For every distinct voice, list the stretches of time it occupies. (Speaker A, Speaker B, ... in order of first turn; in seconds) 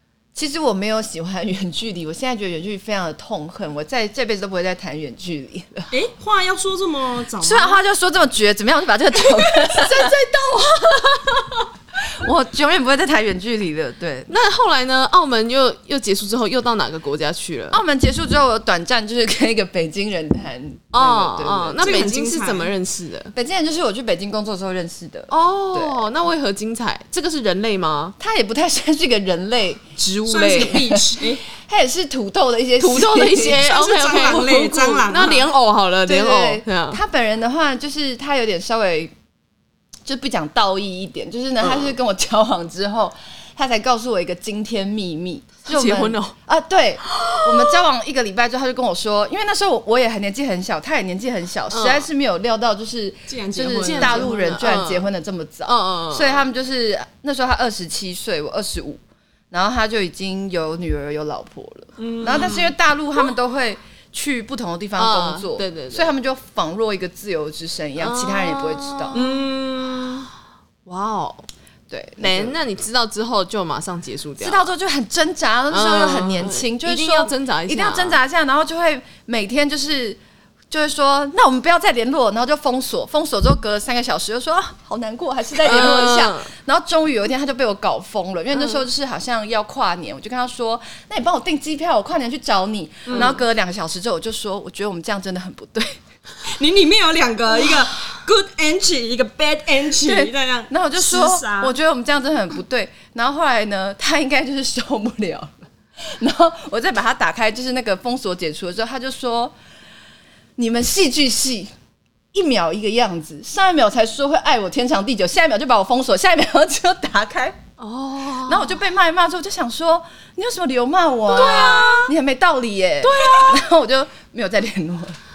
Speaker A: 0.3-5.9, 7.4-10.2, 12.2-14.3, 17.7-22.1, 23.3-26.0, 28.2-29.9, 30.4-31.1, 31.6-33.6, 36.1-39.1, 40.1-69.3, 71.9-72.6, 74.4-80.2, 80.7-96.0, 100.0-109.5, 110.6-111.7, 112.3-117.6, 118.5-125.2
Speaker B: 5.9-7.8, 21.8-22.7, 30.3-31.4, 33.6-35.5, 53.3-54.6, 62.0-62.7, 69.1-69.8, 93.1-93.4, 96.5-101.8
Speaker C: 14.3-17.8, 20.9-23.3, 25.3-28.2, 30.0-30.8, 32.8-37.0, 41.6-42.0, 45.7-46.4, 47.0-47.8, 51.7-52.1, 53.8-55.1, 55.7-56.5, 65.0-66.2, 68.0-70.3, 70.9-71.5, 72.2-74.7, 75.7-78.2, 85.6-86.5, 117.8-118.8, 121.3-122.1, 123.0-123.7